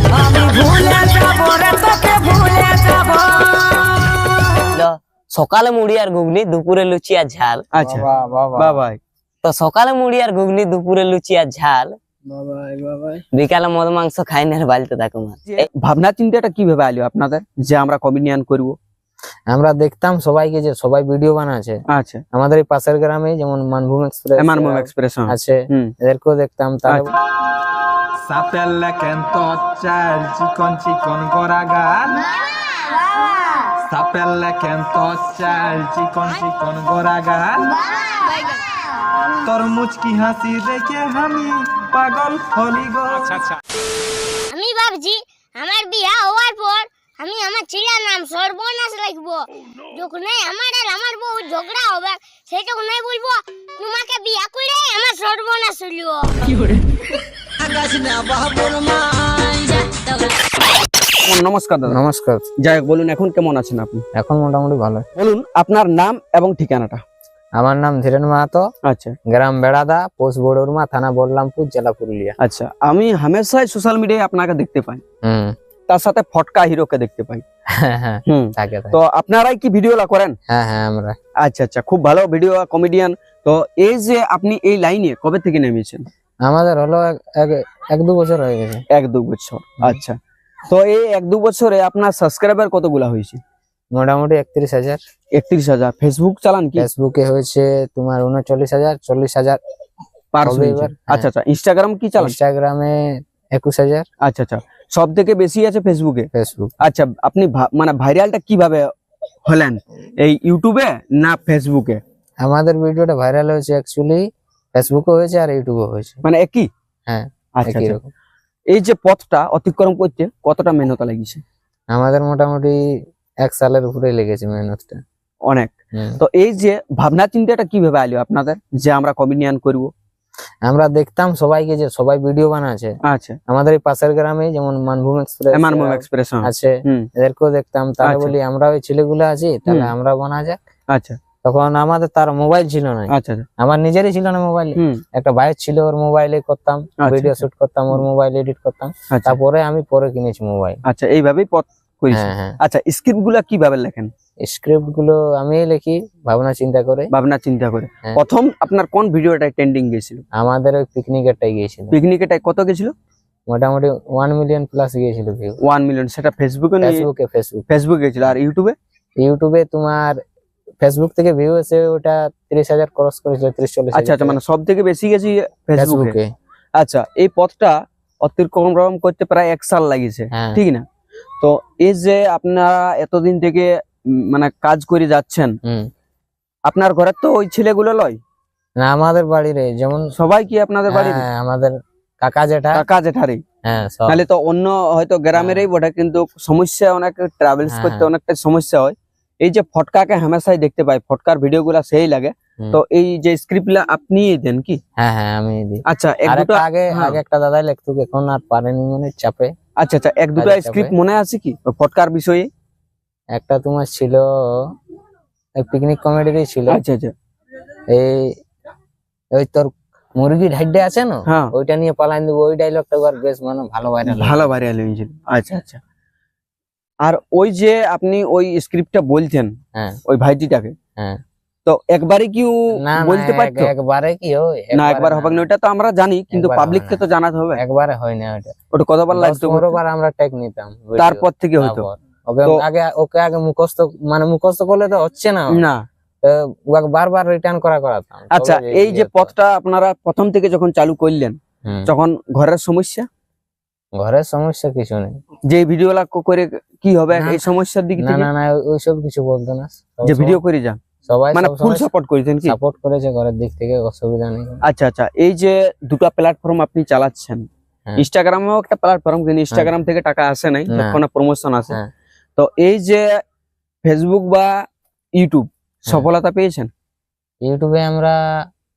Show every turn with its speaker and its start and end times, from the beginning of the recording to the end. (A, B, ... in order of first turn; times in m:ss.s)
0:00.3-0:03.4 A
0:04.7-0:07.6 A
0:07.7-0:09.0 B
0:07.8-0:08.8 C
0:09.4-0:12.0 A
0:12.3-0:13.2 C
0:13.3-0:15.7 A
0:15.5-0:18.8 B
0:19.5-0:21.8 C
0:21.9-0:22.2 B
0:22.3-0:27.1 C
0:24.4-0:25.9 B
0:28.2-0:32.2 D
0:32.3-0:33.3 E
0:33.8-0:37.7 D
0:37.6-0:39.1 E
0:39.4-0:43.6 D
0:44.5-0:56.4 E
1:01.2-1:02.0 B
1:01.9-1:02.4 C
1:02.6-1:04.0 B
1:04.2-1:05.0 C
1:05.2-1:07.0 B
1:07.6-1:08.7 C
1:08.8-1:09.2 B
1:09.3-1:12.4 C
1:12.4-1:15.0 B
1:15.2-1:15.5 C
1:15.9-1:17.4 B
1:17.8-1:19.0 C
1:18.3-1:20.4 B
1:20.5-1:21.2 C
1:21.4-1:26.1 B
1:26.5-1:28.8 C
1:28.9-1:30.2 B
1:30.7-1:33.4 B
1:34.0-1:35.0 C
1:35.3-1:36.9 B
1:36.8-1:39.6 C
1:40.3-1:42.4 B
1:40.4-1:41.3 C
1:42.2-1:44.1 C
1:44.2-1:46.3 B
1:46.3-1:46.7 C
1:46.8-1:48.9 B
1:49.5-1:52.0 B
1:52.4-1:56.2 C
1:56.2-1:56.7 B
1:57.1-1:58.1 C
1:57.6-1:58.0 B
1:58.7-2:01.4 B
2:01.9-2:02.8 C
2:03.4-2:05.0 C
2:05.5-2:09.9 B
2:10.7-2:12.9 C
2:13.0-2:13.4 B
2:13.5-2:20.6 C
2:15.5-2:17.1 B
2:18.0-2:18.3 B
2:20.9-2:21.2 B
2:21.4-2:30.8 C
2:23.1-2:23.4 B
2:27.0-2:28.0 B
2:29.1-2:29.4 B
2:30.9-2:34.1 B
2:32.1-2:32.6 C
2:34.4-2:37.1 C
2:37.1-2:40.2 B
2:40.4-2:42.0 C
2:41.9-2:42.9 B
2:43.5-2:45.6 C
2:45.6-2:47.1 B
2:46.8-2:47.7 C
2:47.7-2:48.8 B
2:49.2-2:50.2 C
2:50.8-2:54.4 C
2:53.9-2:56.2 B
2:55.8-2:56.3 C
2:56.8-3:00.8 B
3:00.3-3:00.6 C
3:01.4-3:05.6 B
3:06.7-3:08.2 B
3:08.8-3:10.1 C
3:10.2-3:11.3 B
3:10.9-3:12.8 C
3:12.7-3:13.4 B
3:13.6-3:14.2 C
3:14.1-3:24.8 B
3:15.3-3:15.7 C
3:17.6-3:18.1 C
3:25.0-3:29.5 C
3:25.9-3:27.2 B
3:29.8-3:32.5 B
3:30.4-3:31.0 C
3:33.3-3:34.3 C
3:35.6-3:36.8 C
3:36.7-3:37.1 B
3:37.9-3:38.3 C
3:39.4-3:44.5 C
3:44.1-3:45.8 B
3:47.0-3:49.6 B
3:50.1-3:50.7 B
3:51.7-3:53.7 B
3:52.8-3:55.5 C
3:54.8-3:57.6 B
3:56.3-3:57.0 C
3:57.6-3:58.6 C
3:58.7-3:59.8 B
3:59.1-4:05.7 C
4:01.0-4:01.9 B
4:05.5-4:05.8 B
4:06.2-4:09.3 C
4:08.3-4:13.1 B
4:11.6-4:11.9 C
4:14.0-4:15.2 C
4:15.5-4:18.3 B
4:17.1-4:17.5 C
4:18.0-4:20.4 C
4:20.0-4:20.8 B
4:21.1-4:21.9 C
4:21.3-4:22.6 B
4:22.4-4:24.6 C
4:24.6-4:27.5 B
4:28.0-4:31.8 B
4:30.7-4:31.0 C
4:32.4-4:33.1 B
4:33.8-4:34.5 B
4:35.2-4:36.7 B
4:37.5-4:38.2 C